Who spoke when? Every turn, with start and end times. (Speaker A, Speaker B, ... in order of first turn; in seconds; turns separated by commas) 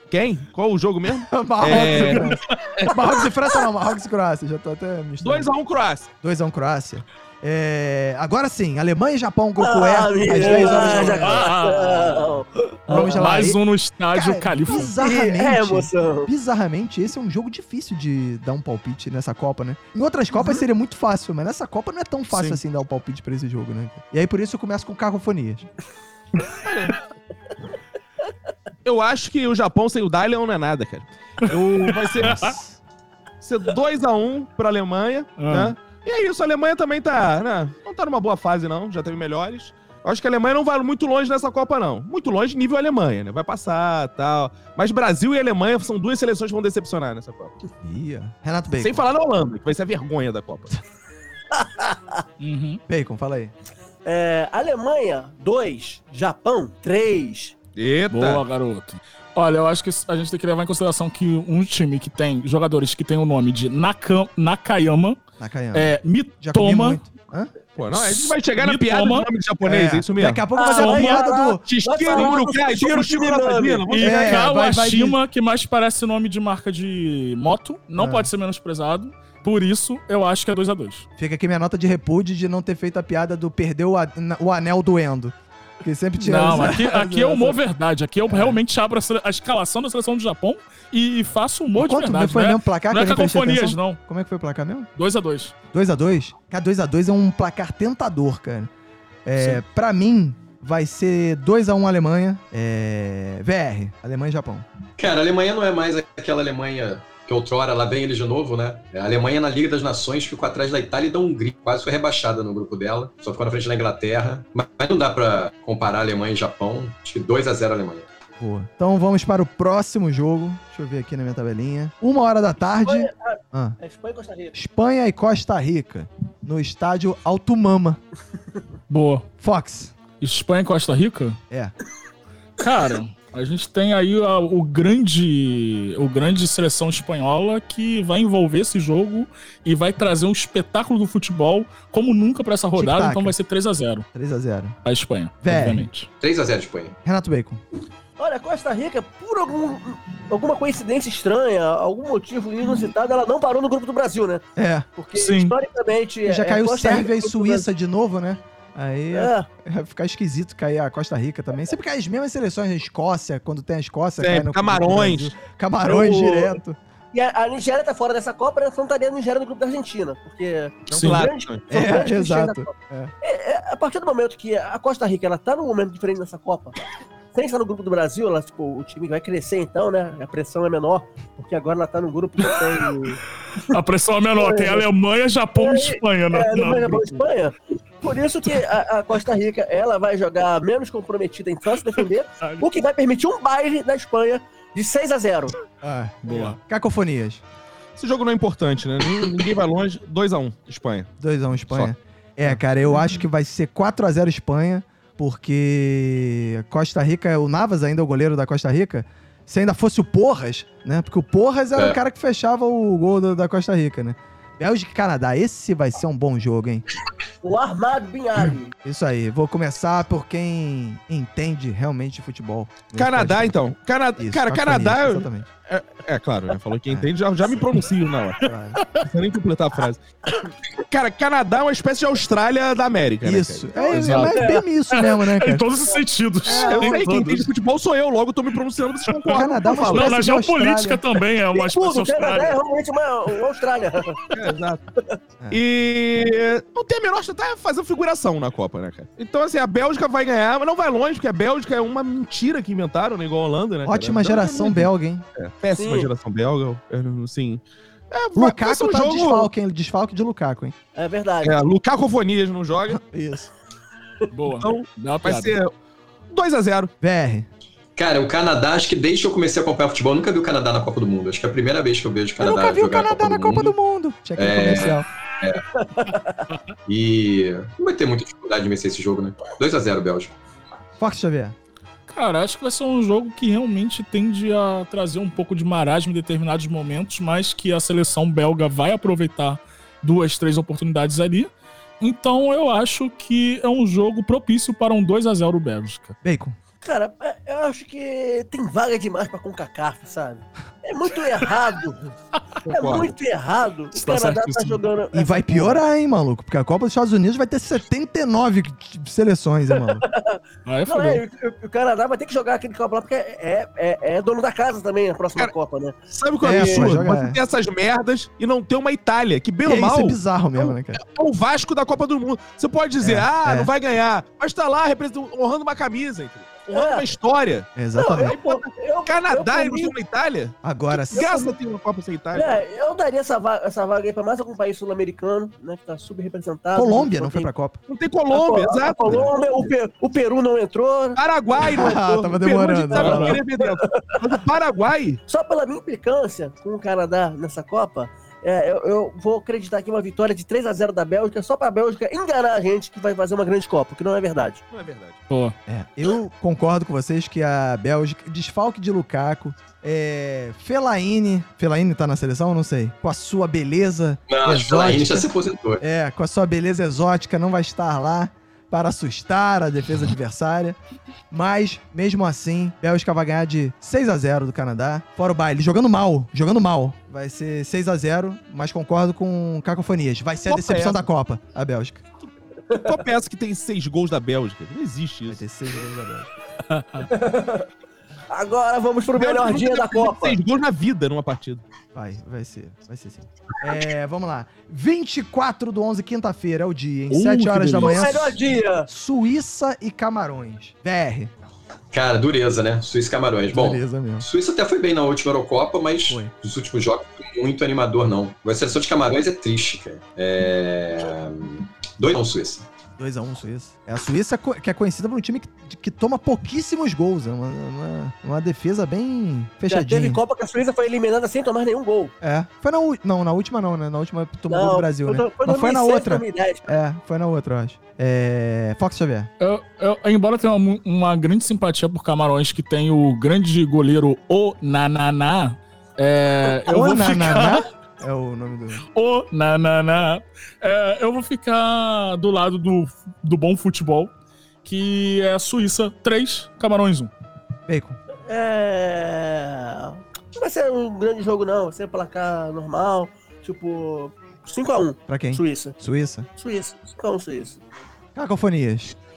Speaker A: 0.1-2.9, Speaker B: 1.2-5.5, Speaker C: 1.7-2.7, Speaker A: 5.2-6.1, Speaker B: 6.2-11.4, Speaker D: 9.6-13.2, Speaker C: 10.3-12.3, Speaker C: 12.9-14.9, Speaker B: 12.9-13.6, Speaker B: 14.1-25.7, Speaker D: 15.0-16.3, Speaker C: 22.3-22.6, Speaker A: 26.6-26.9, Speaker A: 28.8-32.5, Speaker B: 31.5-32.8, Speaker A: 33.4-47.5, Speaker C: 35.4-35.8, Speaker B: 47.8-49.0, Speaker A: 48.8-50.8, Speaker D: 51.5-52.2, Speaker C: 52.4-52.8, Speaker B: 52.9-53.5, Speaker D: 54.0-57.5, Speaker A: 57.8-58.4, Speaker C: 58.1-65.2, Speaker B: 65.4-67.5, Speaker C: 65.7-67.0, Speaker A: 67.8-70.4, Speaker C: 67.9-69.3, Speaker B: 69.7-71.6, Speaker D: 70.5-73.9, Speaker A: 71.7-74.4, Speaker C: 73.9-81.0, Speaker B: 74.0-75.2, Speaker B: 78.0-78.3, Speaker B: 81.2-87.6, Speaker C: 86.2-94.0, Speaker B: 88.3-88.6, Speaker B: 91.7-94.9, Speaker C: 95.0-95.5, Speaker B: 95.7-98.7, Speaker B: 99.2-104.7, Speaker E: 105.0-118.1, Speaker B: 118.4-123.8, Speaker D: 122.8-124.6, Speaker B: 124.5-128.0, Speaker C: 128.9-129.3, Speaker B: 129.4-130.0, Speaker C: 130.1-131.4, Speaker C: 132.6-144.1, Speaker B: 142.8-143.3, Speaker B: 144.1-144.8, Speaker C: 144.8-146.1, Speaker B: 145.4-145.9, Speaker E: 146.2-146.9, Speaker B: 147.0-147.6, Speaker D: 148.2-154.4, Speaker B: 154.6-154.9, Speaker D: 155.0-157.7, Speaker C: 155.1-155.5, Speaker B: 156.2-166.8, Speaker D: 159.1-159.5, Speaker A: 164.2-165.3, Speaker D: 165.9-166.5, Speaker D: 167.1-172.7, Speaker A: 170.9-171.6, Speaker C: 170.9-171.3, Speaker B: 171.7-173.1, Speaker D: 173.2-176.8, Speaker D: 177.3-183.8, Speaker C: 183.6-187.2, Speaker D: 184.4-184.8, Speaker D: 185.6-195.5, Speaker B: 195.8-197.4, Speaker C: 196.3-196.5, Speaker A: 198.0-201.1, Speaker B: 201.2-216.8, Speaker D: 217.4-218.7, Speaker B: 218.8-223.6, Speaker A: 222.9-228.4, Speaker B: 224.2-225.5, Speaker B: 228.4-228.8, Speaker C: 228.8-229.1, Speaker A: 229.0-230.0, Speaker A: 230.9-233.7, Speaker B: 233.2-235.6, Speaker D: 233.8-234.6, Speaker C: 233.9-237.4, Speaker B: 236.4-237.0, Speaker A: 236.6-240.1, Speaker B: 239.3-241.0, Speaker C: 239.3-242.6, Speaker D: 241.5-244.2, Speaker A: 244.3-244.8, Speaker A: 245.5-259.5, Speaker B: 253.8-255.2, Speaker D: 255.8-256.1, Speaker B: 258.3-260.7, Speaker D: 260.9-261.6, Speaker A: 261.4-263.0, Speaker B: 262.9-263.5, Speaker C: 264.3-265.6, Speaker A: 264.6-265.7, Speaker A: 266.3-266.9, Speaker B: 267.0-267.5, Speaker E: 267.9-273.7, Speaker B: 272.4-275.1, Speaker E: 274.4-275.6, Speaker D: 275.8-276.4, Speaker E: 276.9-280.3, Speaker B: 281.0-281.6, Speaker C: 282.1-296.2, Speaker B: 296.2-296.6, Speaker D: 296.8-302.1, Speaker A: 302.6-303.1, Speaker D: 302.7-305.8, Speaker C: 303.9-304.8, Speaker B: 305.1-310.0, Speaker D: 310.0-315.9, Speaker C: 310.6-311.2, Speaker A: 316.1-332.5, Speaker B: 316.4-317.4, Speaker D: 316.5-316.9, Speaker B: 319.6-321.0, Speaker B: 323.0-323.7, Speaker D: 326.7-327.1, Speaker B: 327.8-328.4, Speaker D: 327.9-329.9, Speaker B: 330.6-331.3, Speaker D: 331.1-331.5, Speaker D: 332.3-337.5, Speaker B: 336.7-337.8, Speaker A: 337.9-339.3, Speaker D: 338.3-342.2, Speaker A: 341.1-345.2, Speaker B: 341.6-343.4, Speaker D: 342.9-344.0, Speaker C: 343.0-343.4, Speaker D: 345.3-354.6, Speaker A: 354.7-355.2, Speaker C: 355.3-355.5, Speaker B: 355.7-365.3, Speaker E: 364.3-365.8, Speaker B: 365.8-370.8, Speaker B: 371.3-382.0, Speaker A: 380.5-381.1, Speaker A: 382.7-385.4, Speaker B: 385.3-386.3, Speaker C: 386.7-387.1, Speaker D: 387.0-387.7, Speaker D: 388.3-390.4, Speaker A: 389.1-391.6, Speaker B: 391.9-401.3, Speaker C: 397.1-398.2, Speaker D: 397.8-398.9, Speaker E: 401.9-412.7, Speaker B: 403.5-404.3, Speaker B: 406.1-406.3, Speaker B: 413.0-420.2, Speaker D: 419.7-422.1, Speaker B: 422.2-429.3, Speaker D: 424.5-426.8, Speaker C: 429.4-437.6, Speaker B: 436.7-438.8, Speaker C: 438.9-444.1, Speaker C: 444.6-447.1, Speaker B: 447.7-448.0, Speaker D: 448.3-455.8, Speaker B: 455.1-456.3, Speaker D: 456.4-457.6, Speaker B: 458.1-458.9